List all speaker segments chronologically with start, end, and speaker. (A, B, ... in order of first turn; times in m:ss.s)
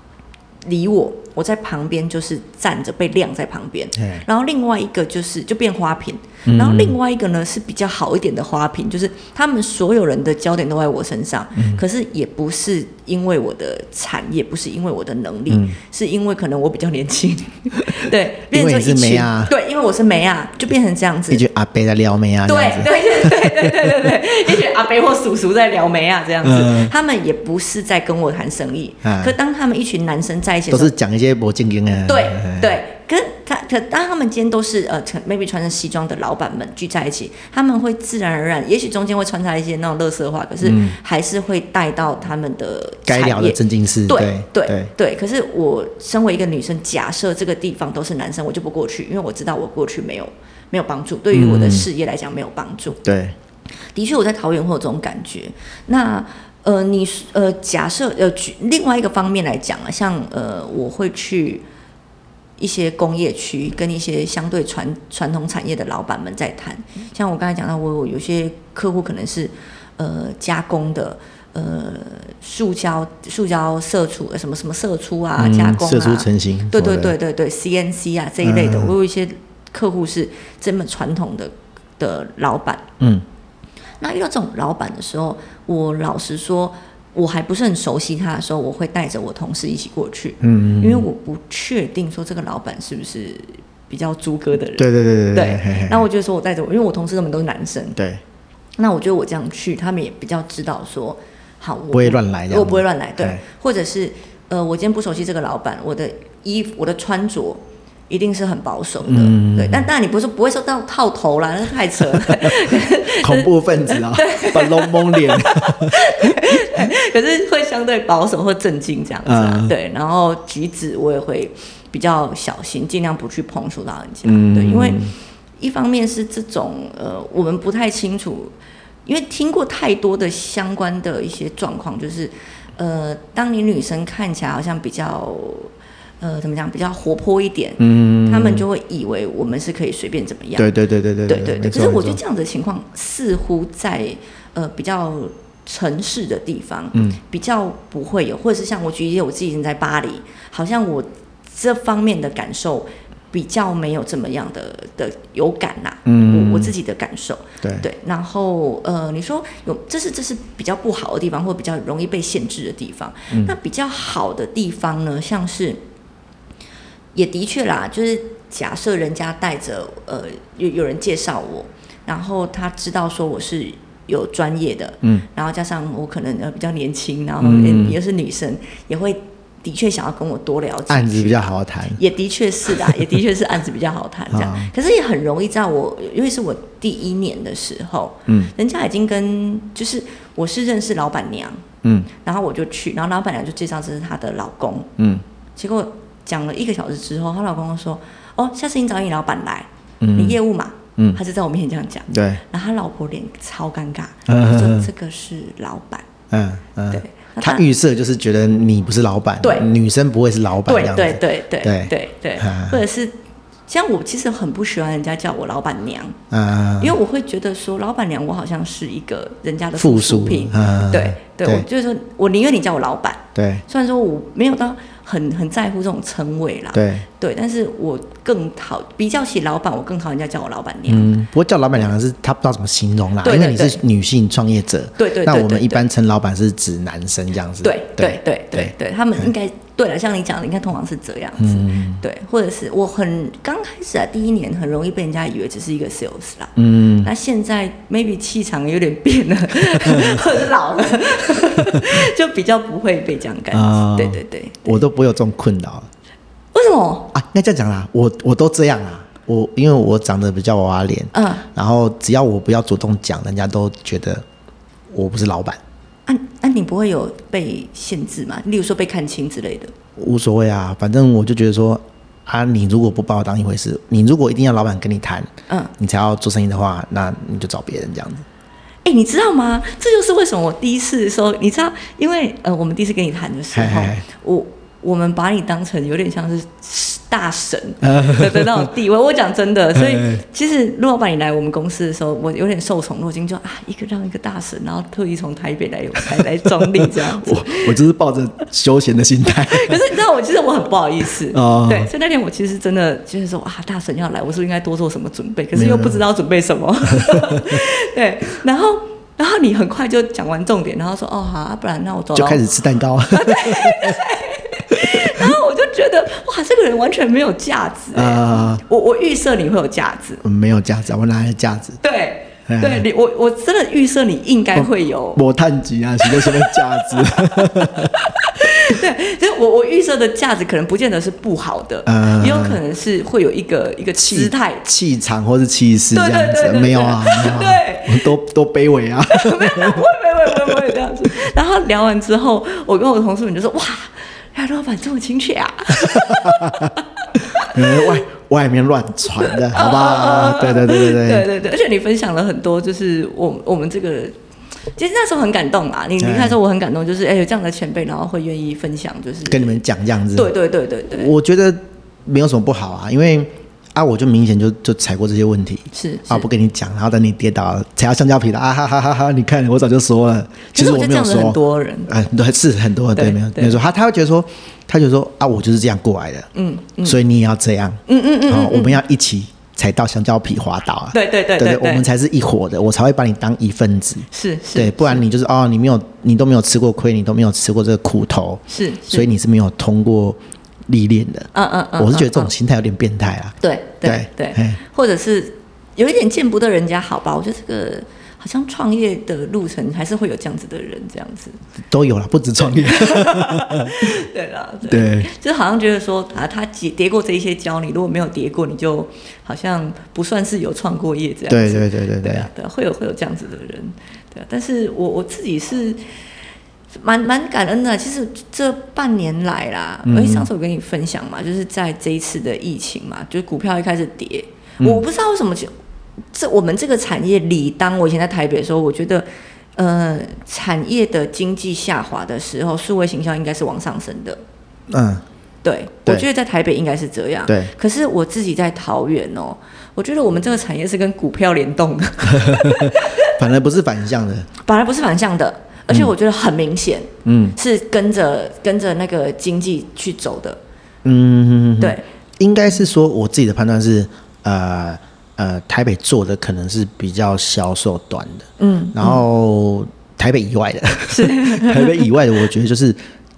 0:00.6-0:21.4 A
0:04.0-0:04.2 B
0:06.4-0:07.0 B
0:11.5-0:11.8 B
0:15.5-0:15.8 B
0:18.5-0:19.5 B
0:21.3-0:23.9 B
0:22.4-0:30.9 A
0:26.4-0:26.9 B
0:29.0-0:29.3 B
0:30.7-0:32.7 B
0:32.1-0:53.0 A
0:40.6-0:41.0 B
0:43.1-0:44.9 B
0:51.3-0:51.9 B
0:53.0-0:53.3 B
0:53.9-1:01.6 A
1:02.6-1:22.9 A
1:15.4-1:17.1 B
1:18.4-1:18.9 B
1:24.0-1:38.0 A
1:30.4-1:31.1 B
1:34.8-1:36.0 B
1:38.0-1:38.2 B
1:38.8-2:05.0 A
1:41.9-1:43.4 B
1:49.0-1:49.9 B
1:52.2-1:56.9 B
1:59.2-1:59.7 B
2:04.2-2:05.1 B
2:05.6-2:08.5 A
2:09.0-2:20.7 A
2:17.8-2:18.6 B
2:20.6-2:22.2 B
2:21.3-2:45.8 A
2:26.9-2:27.2 B
2:36.0-2:36.7 B
2:37.6-2:37.9 B
2:43.3-2:43.6 B
2:47.1-3:11.6 A
2:57.4-2:58.0 B
3:00.9-3:02.0 B
3:02.7-3:03.1 B
3:04.3-3:04.7 B
3:08.3-3:08.5 B
3:11.8-3:12.1 B
3:12.2-3:14.9 A
3:15.0-3:15.2 B
3:15.6-3:26.1 A
3:20.0-3:20.4 B
3:22.1-3:22.4 B
3:24.3-3:24.9 B
3:26.3-3:32.8 B
3:26.9-3:27.6 A
3:29.4-3:29.7 A
3:30.6-3:36.2 A
3:36.3-3:37.0 B
3:36.8-3:51.1 A
3:39.8-3:41.6 B
3:43.4-3:43.6 B
3:46.7-3:47.1 B
3:50.9-3:59.3 B
3:53.2-3:53.8 A
3:55.0-3:55.8 A
3:57.6-4:14.8 A
4:01.4-4:02.0 B
4:06.6-4:07.1 B
4:09.8-4:10.2 B
4:11.4-4:11.8 B
4:13.5-4:15.9 B
4:16.5-4:17.1 A
4:17.1-4:24.2 B
4:21.1-4:21.4 A
4:24.9-4:25.6 B
4:26.1-4:29.7 A
4:30.0-4:38.2 B
4:38.8-4:57.7 A
4:43.5-4:44.0 B
4:47.8-4:48.7 B
4:49.8-4:50.2 B
4:56.5-4:59.9 B
4:59.2-5:12.4 A
5:01.3-5:01.9 B
5:05.5-5:06.0 B
5:06.9-5:07.6 B
5:12.1-5:14.0 B
5:13.1-5:20.2 A
5:14.7-5:15.3 B
5:17.9-5:18.6 B
5:20.2-5:21.8 B
5:21.8-5:25.2 A
5:22.5-5:22.8 B
5:24.5-5:28.7 B
5:26.0-5:34.6 A
5:31.8-5:32.6 B
5:34.0-5:40.7 B
5:35.9-5:38.1 A
5:39.1-5:46.8 A
5:45.8-5:51.3 B
5:47.4-5:48.0 A
5:49.2-5:54.1 A
5:54.8-5:59.6 A
5:56.0-5:56.4 B
5:59.2-6:00.3 B
6:00.1-6:01.1 A
6:00.9-6:16.3 B
6:05.7-6:06.3 A
6:10.5-6:11.9 A
6:12.9-6:13.6 A
6:16.3-6:17.0 A
6:16.8-6:34.6 B
6:17.9-6:18.8 A
6:20.9-6:21.8 A
6:24.1-6:25.0 A
6:28.5-6:29.1 A
6:31.3-6:32.3 A
6:33.4-6:41.4 A
6:41.7-6:43.9 B
6:42.4-6:55.9 A
6:44.7-6:45.1 B
6:51.3-6:52.3 B
6:56.8-7:05.5 A
6:59.8-7:00.3 B
7:06.1-7:14.2 A
7:14.7-7:15.0 B
7:15.4-7:23.1 A
7:17.3-7:17.5 B
7:22.1-7:24.3 B
7:24.4-7:30.4 A
7:27.0-7:27.4 B
7:30.8-7:42.8 B
7:31.6-7:31.8 A
7:38.4-7:39.0 A
7:40.9-7:41.9 A